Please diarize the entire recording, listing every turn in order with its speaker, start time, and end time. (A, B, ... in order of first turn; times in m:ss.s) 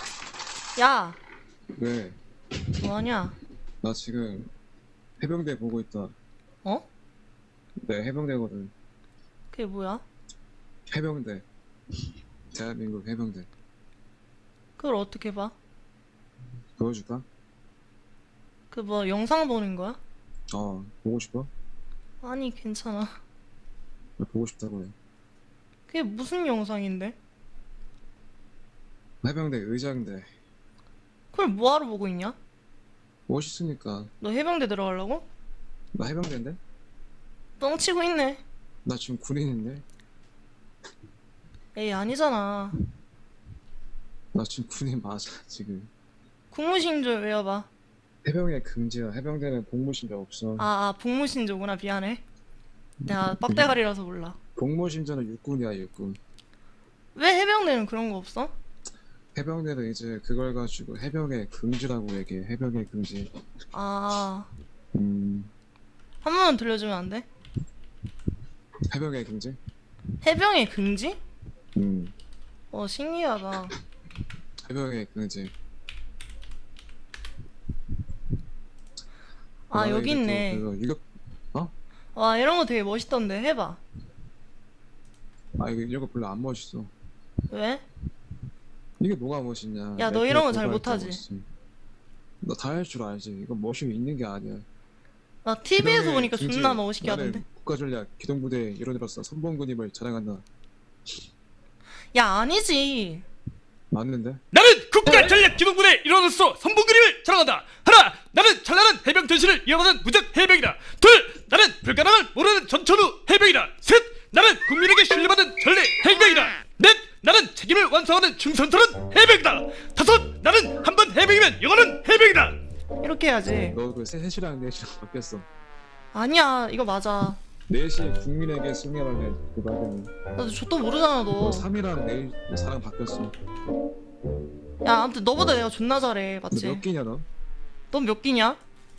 0:00.8-0:01.2 A
0:01.7-0:02.2 B
0:02.8-0:03.4 A
0:03.8-0:04.5 B
0:05.2-0:06.1 B
0:07.8-0:08.7 B
0:09.5-0:10.0 A
0:10.9-0:11.4 B
0:12.5-0:13.5 B
0:14.8-0:15.6 A
0:16.8-0:17.3 B
0:18.7-0:20.0 A
0:20.5-0:21.5 B
0:22.2-0:23.2 A
0:24.2-0:25.0 B
0:25.9-0:27.2 A
0:29.2-0:30.3 B
0:31.3-0:32.4 A
0:33.3-0:34.1 B
0:34.2-0:35.3 A
0:35.9-0:36.6 B
0:37.6-0:38.4 A
0:38.8-0:39.8 B
0:41.8-0:42.8 A
0:44.3-0:45.9 B
0:46.5-0:47.7 A
0:48.2-0:50.7 B
0:50.6-0:52.2 A
0:53.0-0:53.8 B
0:53.1-0:54.4 A
0:54.6-0:56.2 B
0:57.2-0:58.5 A
0:59.4-1:03.3 B
1:03.7-1:04.5 A
1:04.9-1:05.5 B
1:06.2-1:07.3 A
1:08.9-1:09.6 B
1:10.2-1:11.2 A
1:11.8-1:12.1 B
1:12.7-1:13.7 A
1:14.6-1:15.5 B
1:19.7-1:20.6 A
1:19.7-1:21.7 B
1:22.2-1:23.8 A
1:25.6-1:26.9 B
1:27.5-1:27.8 A
1:29.0-1:31.5 B
1:30.0-1:31.2 A
1:32.4-1:34.7 B
1:35.4-1:37.4 A
1:35.8-1:40.4 B
1:42.1-1:43.2 A
1:43.9-1:44.4 B
1:44.5-2:02.6 C
2:03.0-2:03.8 A
2:03.6-2:05.5 B
2:06.1-2:07.4 A
2:07.7-2:10.1 B
2:10.4-2:11.7 A
2:11.4-2:13.3 B
2:14.8-2:16.8 A
2:16.5-2:17.3 B
2:17.9-2:18.6 A